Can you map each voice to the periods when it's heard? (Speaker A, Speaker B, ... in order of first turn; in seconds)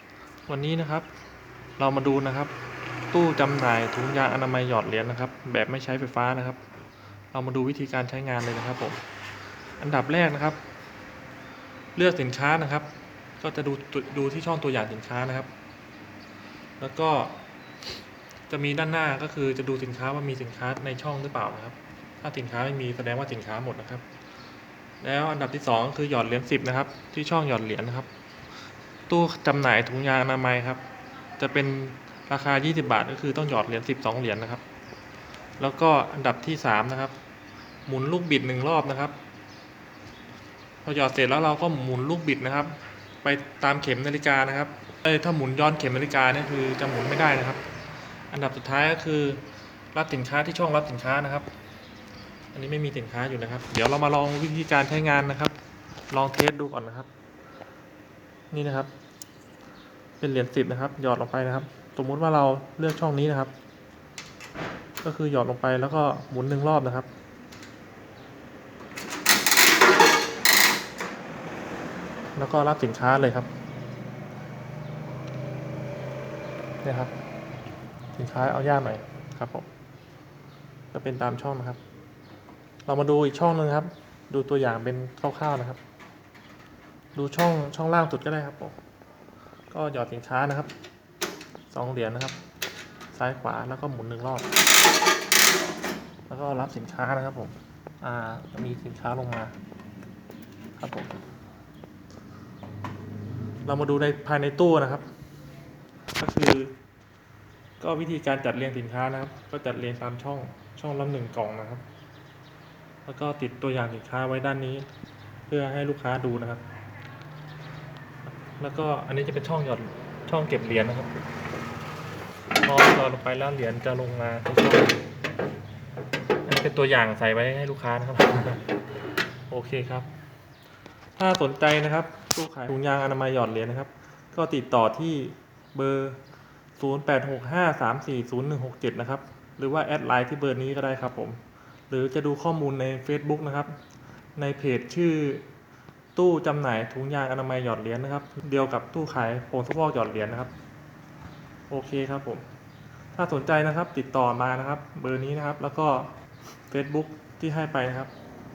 Speaker A: 0.5-1.1, 1.8-2.5, 3.1-6.6, 7.3-9.0, 9.8-10.6, 11.9-15.5, 16.8-17.4, 18.5-24.0, 25.0-28.1, 29.1-30.8, 31.4-34.6, 35.6-37.1, 37.9-39.1, 40.8-47.6, 48.3-51.5, 52.5-55.5, 56.1-57.1, 58.5-58.9, 60.2-63.5, 65.0-67.1, 72.3-73.5, 76.8-77.1, 78.1-79.7, 80.9-81.8, 82.8-85.8, 87.1-88.8, 89.7-90.7, 91.7-92.4, 93.1-94.5, 96.3-99.5, 100.8-101.2, 103.7-105.0, 106.2-106.8, 107.8-111.8, 113.0-114.9, 115.5-116.6, 118.4-121.1, 122.6-125.0, 126.4-128.6, 129.5-130.1, 131.2-136.2, 136.8-143.8, 144.3-145.4, 146.1-150.5, 151.7-152.4, 153.1-156.1, 156.7-158.1